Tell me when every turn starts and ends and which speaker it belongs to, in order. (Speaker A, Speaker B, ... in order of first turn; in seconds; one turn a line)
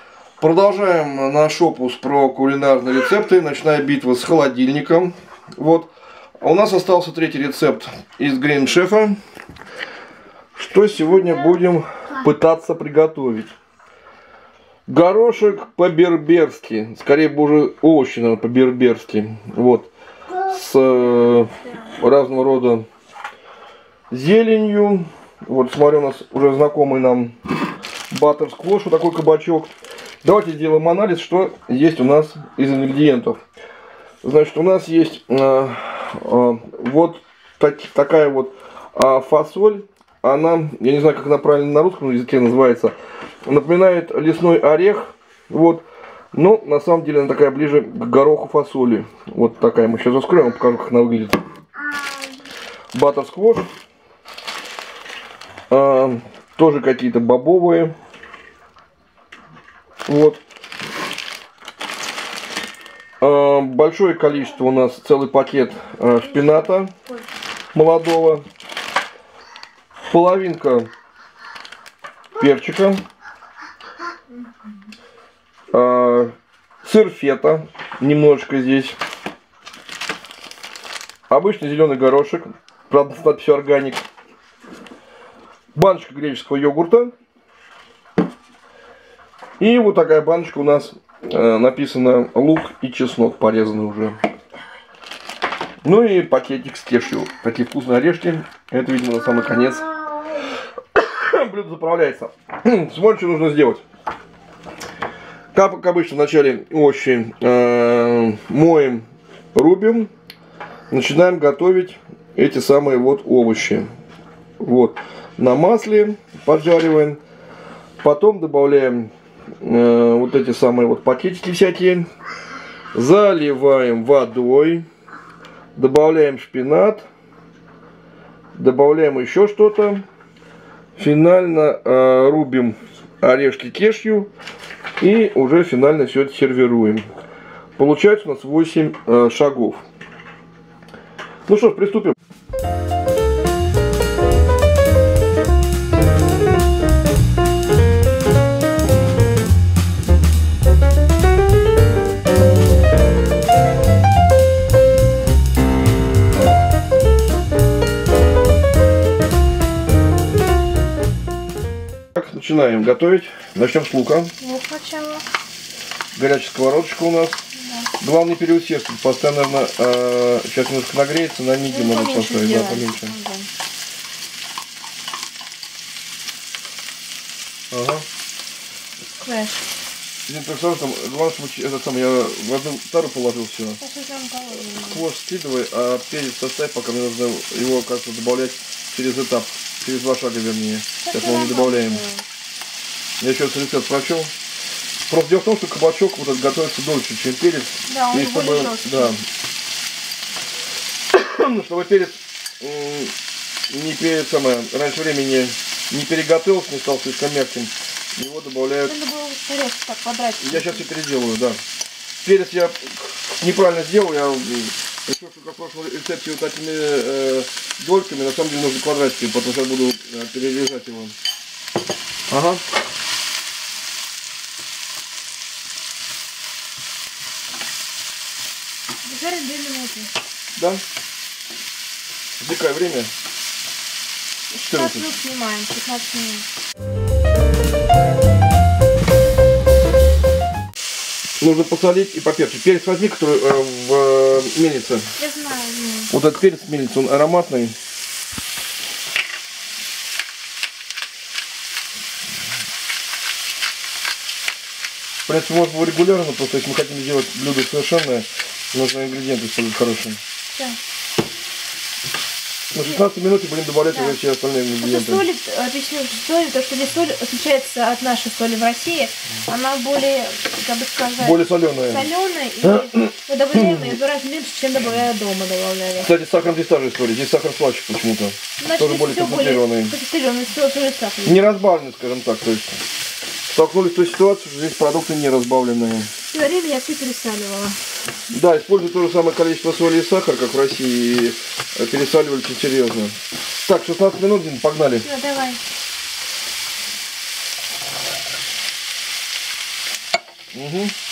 Speaker A: 0.4-5.9
Speaker A: 6.4-9.2
Speaker A: 10.6-13.5
Speaker A: 14.9-22.9
Speaker A: 24.1-27.3
Speaker A: 28.1-29.7
Speaker A: 30.2-33.4
Speaker A: 34.2-42.9
Speaker A: 43.5-51.4
Speaker A: 52.9-53.7
Speaker A: 55.7-57.9
Speaker A: 60.1-60.4
Speaker A: 63.2-66.9
Speaker B: 66.0-67.3
Speaker A: 67.7-68.4
Speaker A: 70.1-70.9
Speaker A: 72.4-73.0
Speaker A: 75.7-76.3
Speaker A: 76.8-79.0
Speaker A: 81.3-84.0
Speaker A: 85.8-87.1
Speaker A: 89.6-94.2
Speaker A: 95.8-99.9
Speaker A: 100.9-103.8
Speaker A: 105.5-110.1
Speaker A: 110.9-113.9
Speaker A: 114.6-117.2
Speaker A: 118.0-119.1
Speaker A: 119.6-122.1
Speaker A: 122.9-124.8
Speaker A: 125.8-127.1
Speaker A: 128.6-130.0
Speaker A: 131.0-134.3
Speaker A: 135.0-137.1
Speaker A: 137.8-139.8
Speaker A: 141.5-142.2
Speaker A: 162.2-164.3
Speaker B: 164.4-165.2
Speaker A: 166.2-167.4
Speaker B: 167.6-167.9
Speaker A: 168.0-173.1
Speaker B: 171.7-173.5
Speaker A: 177.7-178.1
Speaker B: 179.2-179.6
Speaker A: 180.3-183.8
Speaker B: 183.8-185.1
Speaker A: 184.9-192.0
Speaker B: 191.0-192.2
Speaker A: 193.2-194.3
Speaker A: 195.1-199.2
Speaker B: 197.9-199.2
Speaker A: 201.1-203.1
Speaker A: 203.7-208.9
Speaker B: 208.8-210.8
Speaker A: 210.4-211.6
Speaker A: 212.2-221.1
Speaker A: 222.3-222.6
Speaker B: 229.1-230.1
Speaker A: 230.6-230.8
Speaker A: 232.4-233.1
Speaker B: 234.5-236.5
Speaker A: 234.6-235.1
Speaker A: 241.4-245.1
Speaker B: 245.2-246.1
Speaker A: 246.1-247.8
Speaker A: 255.3-260.2
Speaker A: 262.7-265.3
Speaker B: 263.9-264.2
Speaker B: 264.8-276.1
Speaker A: 271.2-272.1
Speaker A: 272.7-273.9
Speaker A: 276.0-279.9
Speaker B: 278.6-281.4
Speaker A: 281.2-282.8
Speaker A: 283.5-286.1
Speaker B: 286.3-287.8
Speaker A: 288.3-295.1
Speaker B: 295.0-295.6
Speaker A: 300.5-300.9